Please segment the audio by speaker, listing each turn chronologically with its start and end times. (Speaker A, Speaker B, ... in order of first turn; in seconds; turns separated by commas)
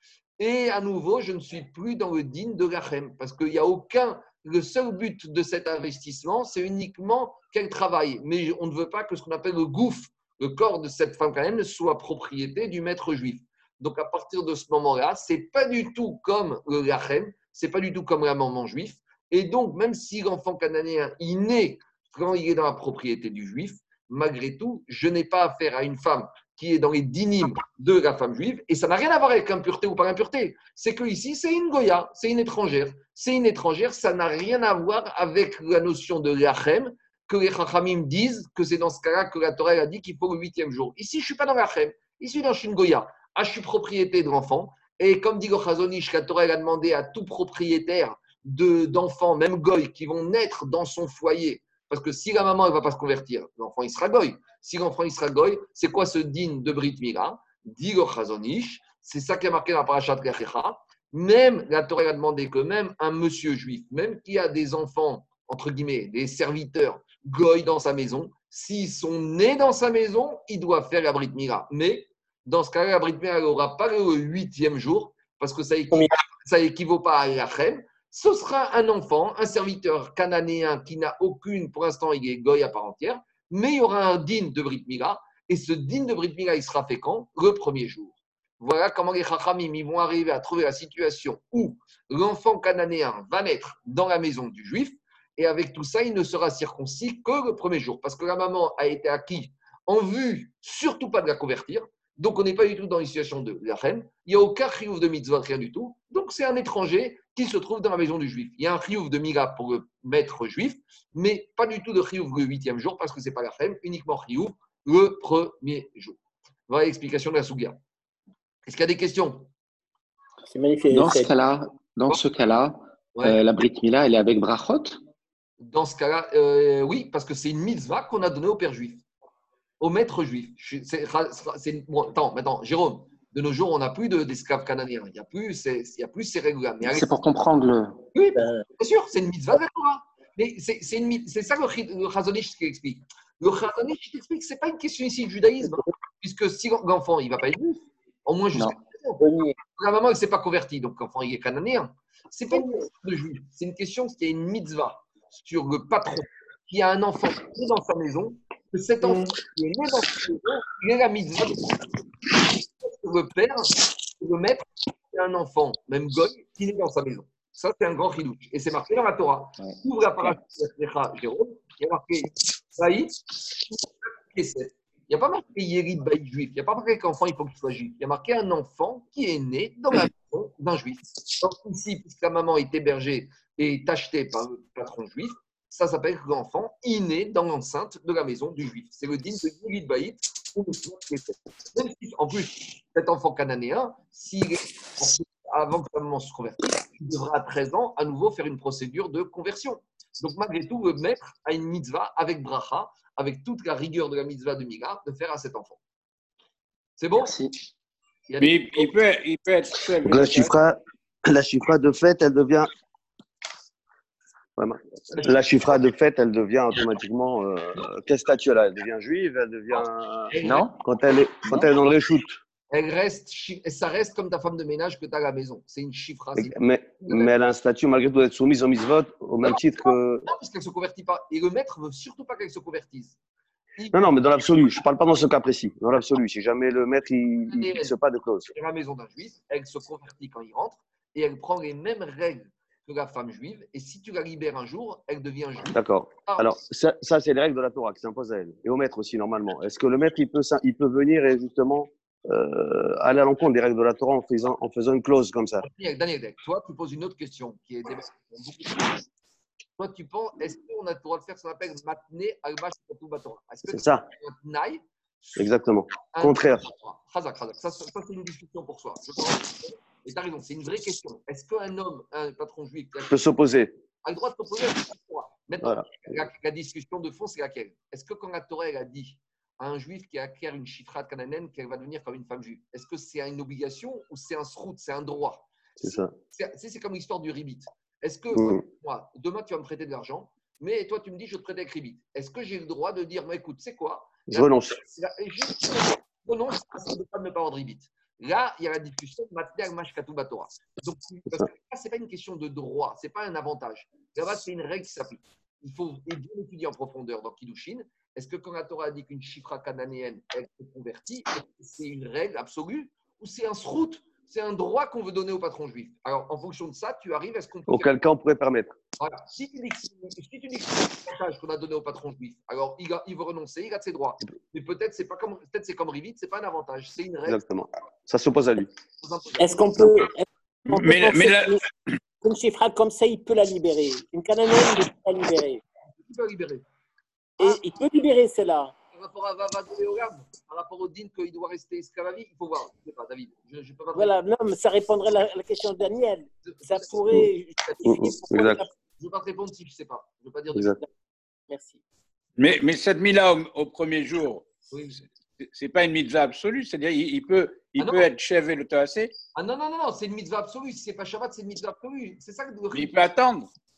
Speaker A: 0.4-117.8, Speaker A: 118.7-119.5, Speaker B: 120.5-121.3, Speaker C: 120.9-125.0, Speaker A: 125.6-129.0, Speaker A: 129.8-137.1, Speaker C: 136.8-138.0, Speaker A: 138.1-149.2, Speaker C: 148.5-149.6, Speaker A: 149.8-161.8, Speaker A: 162.8-173.1, Speaker A: 174.3-205.8, Speaker A: 207.0-207.4, Speaker C: 207.2-207.5, Speaker A: 208.3-208.9, Speaker D: 208.4-210.6, Speaker E: 210.0-212.7, Speaker E: 214.6-222.4, Speaker A: 215.1-215.5, Speaker A: 219.7-220.7, Speaker C: 220.4-220.8, Speaker A: 222.7-227.3, Speaker E: 226.4-230.3, Speaker A: 229.4-233.2, Speaker A: 233.8-234.8, Speaker E: 233.9-238.5, Speaker A: 237.5-237.9, Speaker A: 238.5-246.5, Speaker E: 245.7-255.7, Speaker A: 255.6-259.0, Speaker A: 259.8-273.2, Speaker E: 263.7-264.1, Speaker E: 265.4-266.7, Speaker E: 273.1-273.7, Speaker A: 274.0-317.9, Speaker E: 275.6-275.9, Speaker E: 285.8-286.1, Speaker E: 288.3-288.6, Speaker E: 294.3-294.8, Speaker E: 317.7-318.8, Speaker A: 319.0-327.4, Speaker E: 327.3-328.7, Speaker A: 329.0-329.8, Speaker B: 329.4-331.6, Speaker D: 330.7-331.6, Speaker B: 332.2-335.6, Speaker A: 336.1-336.6, Speaker B: 337.4-338.7, Speaker A: 338.9-344.2, Speaker B: 343.9-348.7, Speaker A: 346.4-350.8, Speaker E: 347.8-348.6, Speaker E: 350.5-350.8, Speaker B: 351.5-351.8, Speaker D: 352.4-354.5, Speaker A: 354.7-355.0, Speaker D: 355.4-359.1, Speaker A: 357.8-358.1, Speaker A: 359.4-363.1, Speaker D: 362.7-363.5